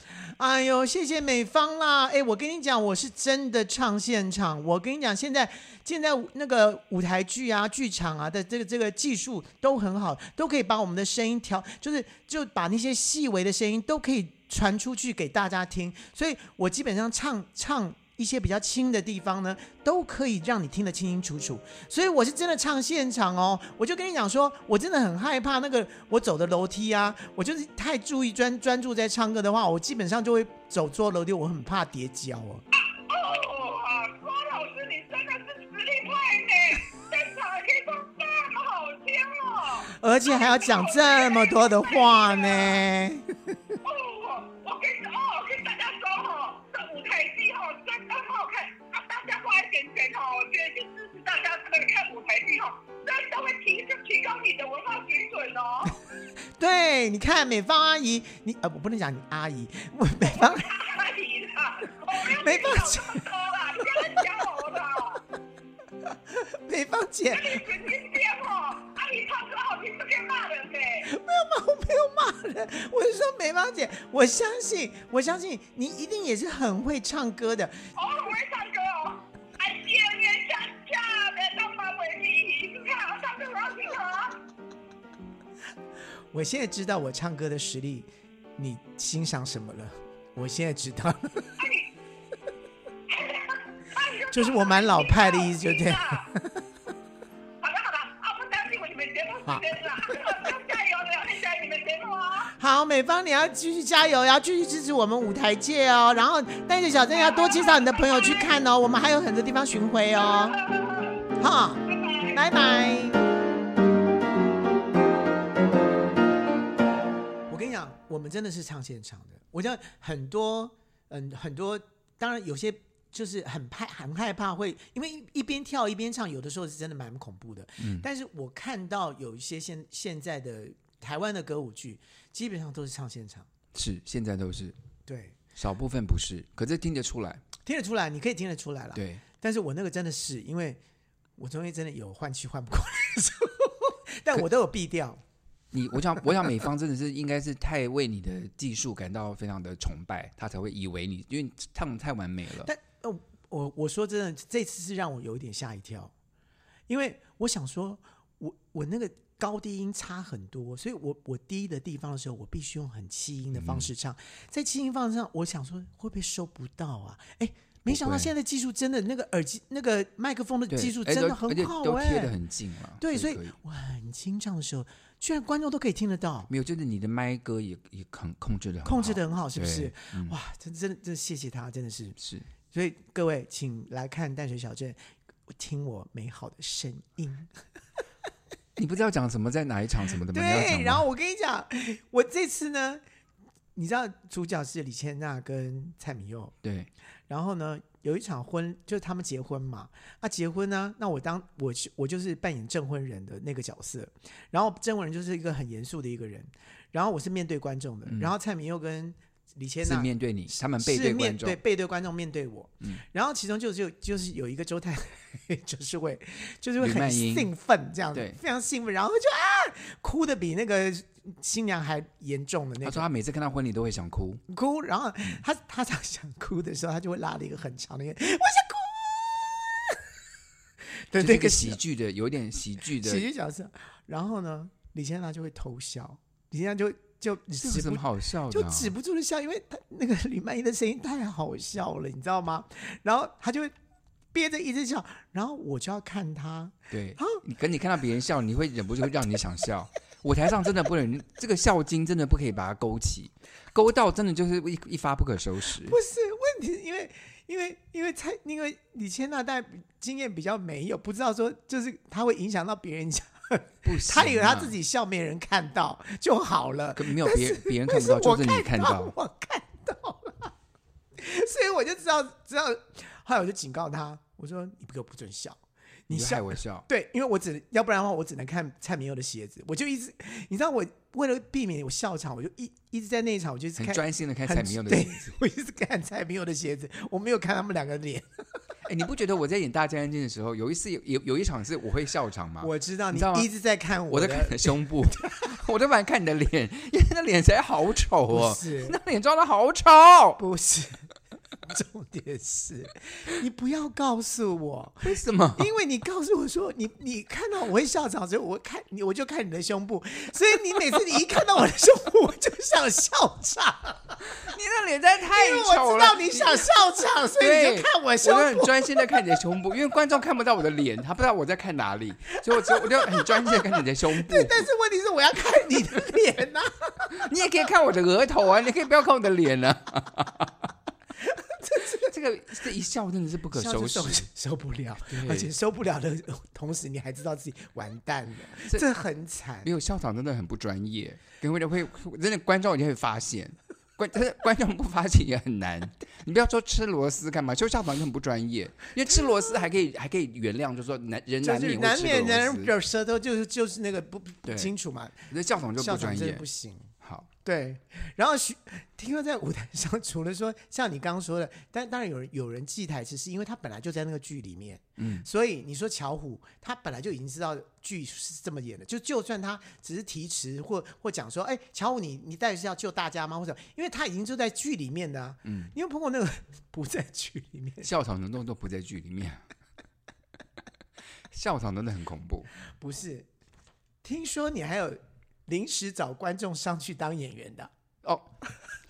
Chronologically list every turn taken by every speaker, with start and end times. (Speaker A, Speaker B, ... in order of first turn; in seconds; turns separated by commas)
Speaker A: 0.2-32.6, Speaker B: 32.7-42.8, Speaker A: 39.9-43.5, Speaker B: 43.8-56.0, Speaker A: 56.6-60.7, Speaker B: 60.2-65.2, Speaker A: 62.2-63.3, Speaker A: 64.0-64.2, Speaker A: 66.3-67.7, Speaker B: 67.3-71.1, Speaker A: 71.0-77.9, Speaker B: 78.0-84.4, Speaker A: 86.3-91.5, Speaker B: 91.6-91.9, Speaker B: 93.1-96.3, Speaker A: 94.3-96.6, Speaker B: 97.6-102.5, Speaker A: 99.5-100.3, Speaker A: 102.5-110.6, Speaker B: 107.1-108.5, Speaker B: 110.2-111.3, Speaker A: 111.4-113.2, Speaker B: 111.9-112.4, Speaker A: 117.5-133.5, Speaker C: 127.8-128.1, Speaker C: 133.7-134.8, Speaker A: 135.1-135.4, Speaker C: 135.6-137.4, Speaker A: 137.6-140.8, Speaker C: 138.9-139.2, Speaker A: 141.4-145.2, Speaker C: 145.7-152.7, Speaker A: 152.6-156.1, Speaker A: 156.9-172.3, Speaker C: 163.5-163.9, Speaker C: 167.8-168.3, Speaker C: 170.7-173.6, Speaker A: 173.0-176.5, Speaker C: 176.5-180.3, Speaker A: 178.8-182.2, Speaker C: 182.2-182.5, Speaker A: 182.7-185.0, Speaker A: 185.5-187.5, Speaker C: 188.8-191.0, Speaker A: 190.3-193.0, Speaker A: 193.7-196.5, Speaker C: 196.6-196.9, Speaker A: 197.3-210.1, Speaker C: 208.1-208.3, Speaker C: 209.8-211.6, Speaker A: 210.8-223.1, Speaker C: 216.8-217.5, Speaker C: 218.1-218.4, Speaker C: 222.8-224.4, Speaker A: 224.5-230.0, Speaker A: 231.0-231.8, Speaker C: 231.2-233.2, Speaker A: 233.0-243.7, Speaker C: 237.6-238.9, Speaker A: 244.3-247.4, Speaker C: 246.9-255.9, Speaker A: 255.8-270.5, Speaker C: 263.8-264.7, Speaker C: 266.9-269.1, Speaker A: 271.2-288.3, Speaker C: 276.1-276.8, Speaker C: 283.8-285.4, Speaker C: 288.9-293.5, Speaker A: 292.6-295.5, Speaker C: 294.1-300.4, Speaker A: 298.3-299.0, Speaker A: 300.4-301.1, Speaker A: 301.7-314.2, Speaker C: 305.0-305.7, Speaker C: 314.3-324.7, Speaker A: 315.3-319.1, Speaker A: 322.5-327.3, Speaker C: 327.1-330.7, Speaker A: 331.3-332.1, Speaker C: 332.0-334.3, Speaker A: 333.5-339.7, Speaker C: 335.1-335.5, Speaker C: 339.6-352.7, Speaker A: 351.4-356.9, Speaker C: 354.4-354.7, Speaker C: 355.3-356.4, Speaker C: 357.0-357.3, Speaker A: 357.4-377.9, Speaker C: 365.0-365.2, Speaker C: 375.4-375.7, Speaker C: 377.8-379.4, Speaker C: 381.3-382.5, Speaker A: 382.8-383.3, Speaker A: 384.0-387.7, Speaker C: 388.0-388.3